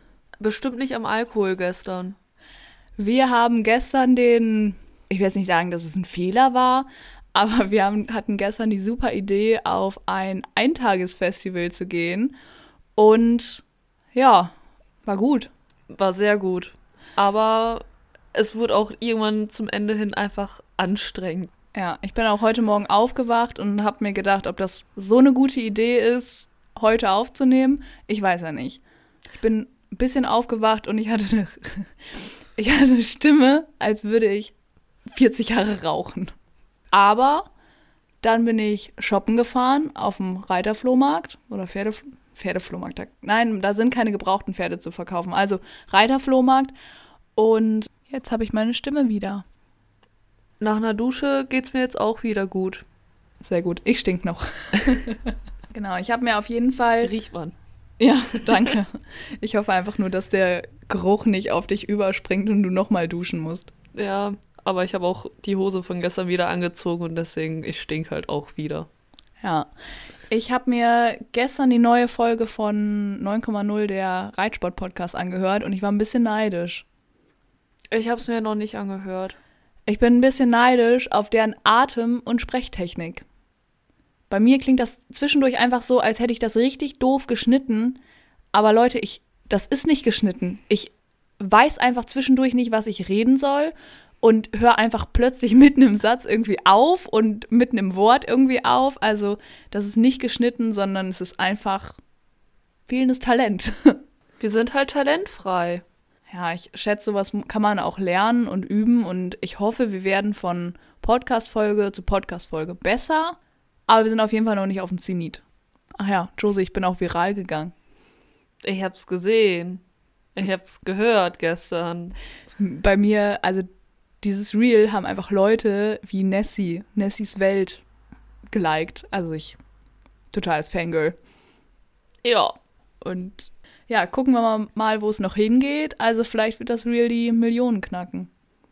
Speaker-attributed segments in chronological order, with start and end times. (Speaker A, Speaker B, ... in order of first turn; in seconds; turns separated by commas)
Speaker A: 0.4-2.2, Speaker B: 3.0-12.3, Speaker B: 13.0-14.5, Speaker B: 15.1-15.5, Speaker A: 15.9-21.5, Speaker B: 21.7-28.8, Speaker B: 29.4-31.9, Speaker B: 32.6-34.5, Speaker B: 35.1-36.3, Speaker B: 36.9-37.5, Speaker B: 38.2-46.7, Speaker B: 47.4-49.5, Speaker A: 50.6-52.8, Speaker B: 53.4-57.1, Speaker A: 57.0-57.5, Speaker B: 58.0-63.7, Speaker A: 63.9-68.9, Speaker B: 69.4-69.7, Speaker B: 70.3-76.8, Speaker A: 77.9-79.4, Speaker B: 79.9-83.2, Speaker B: 84.3-88.0, Speaker B: 88.5-102.0, Speaker B: 102.9-104.0, Speaker A: 104.4-105.8, Speaker B: 106.3-115.4, Speaker B: 116.0-117.7, Speaker A: 118.6-119.8, Speaker A: 120.4-122.2, Speaker B: 122.6-123.7, Speaker B: 124.2-127.8, Speaker B: 128.5-129.6, Speaker B: 130.3-131.2, Speaker A: 132.2-132.6, Speaker B: 133.0-138.3